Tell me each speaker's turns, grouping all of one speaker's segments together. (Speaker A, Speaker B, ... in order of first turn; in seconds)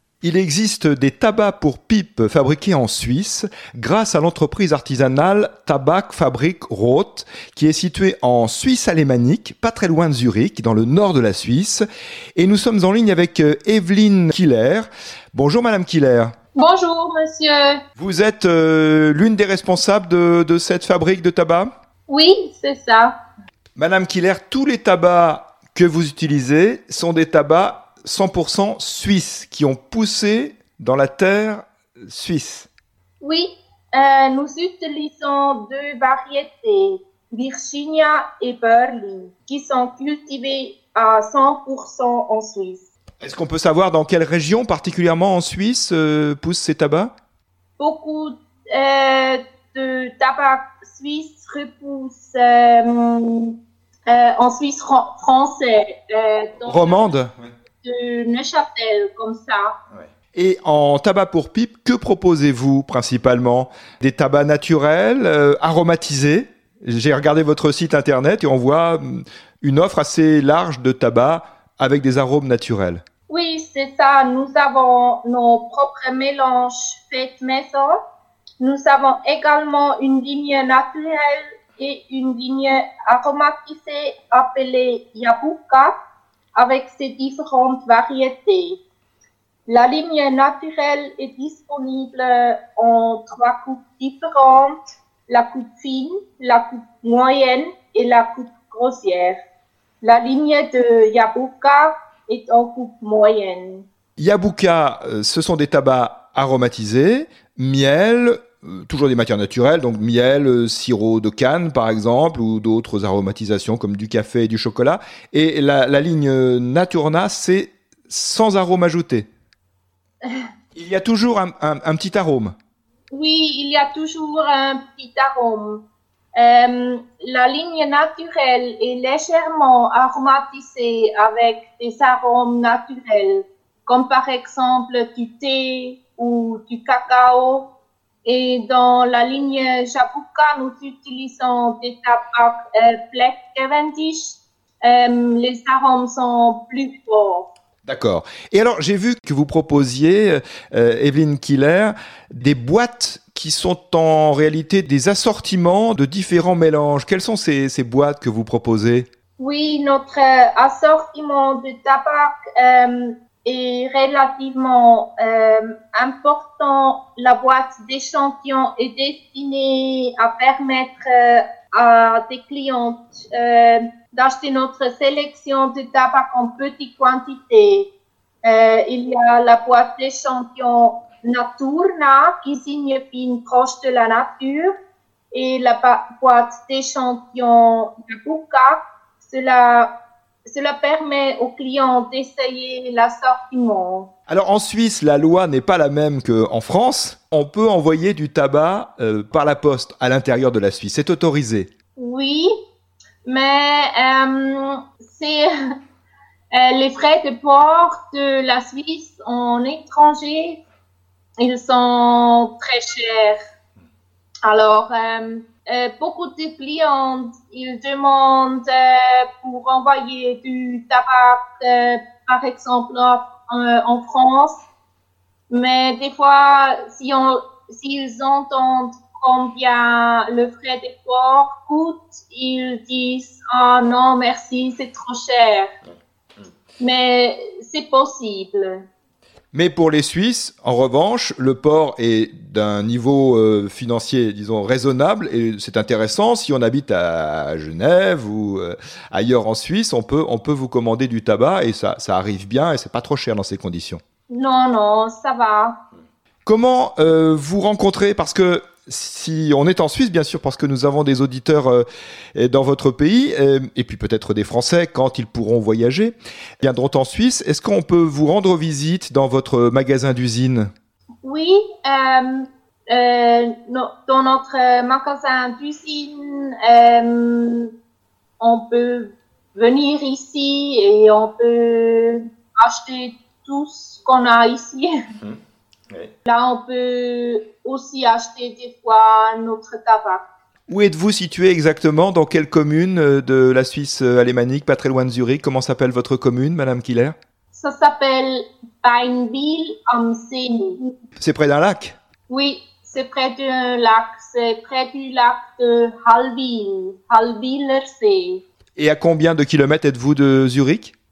Speaker A: 0.2-11.8, 12.3-16.3, 18.0-21.7, 23.8-32.7, 43.2-47.1, 56.6-57.5, 60.0-73.0, 104.2-119.3, 120.7-122.5, 147.8-159.1, 194.3-201.7, 239.5-254.0, 256.4-261.8, 262.4-270.7, 290.7-297.1, 301.2-301.9, 308.8-310.9
Speaker B: 16.5-17.8, 22.1-23.1, 33.2-42.9, 47.8-53.5, 54.1-57.1, 57.8-59.7, 73.3-77.9, 78.6-85.9, 86.5-88.8, 89.7-94.8, 95.3-99.4, 100.0-103.8, 123.1-125.8, 126.3-137.7, 138.2-147.5, 159.4-177.9, 178.4-184.7, 185.3-189.9, 190.4-194.1, 202.0-202.5, 203.2-205.5, 206.5-210.6, 211.4-213.4, 214.4-224.6, 225.5-235.7, 236.8-238.8, 254.3-255.8, 271.2-277.7, 278.4-284.9, 286.3-290.2, 297.5-300.8, 302.3-308.4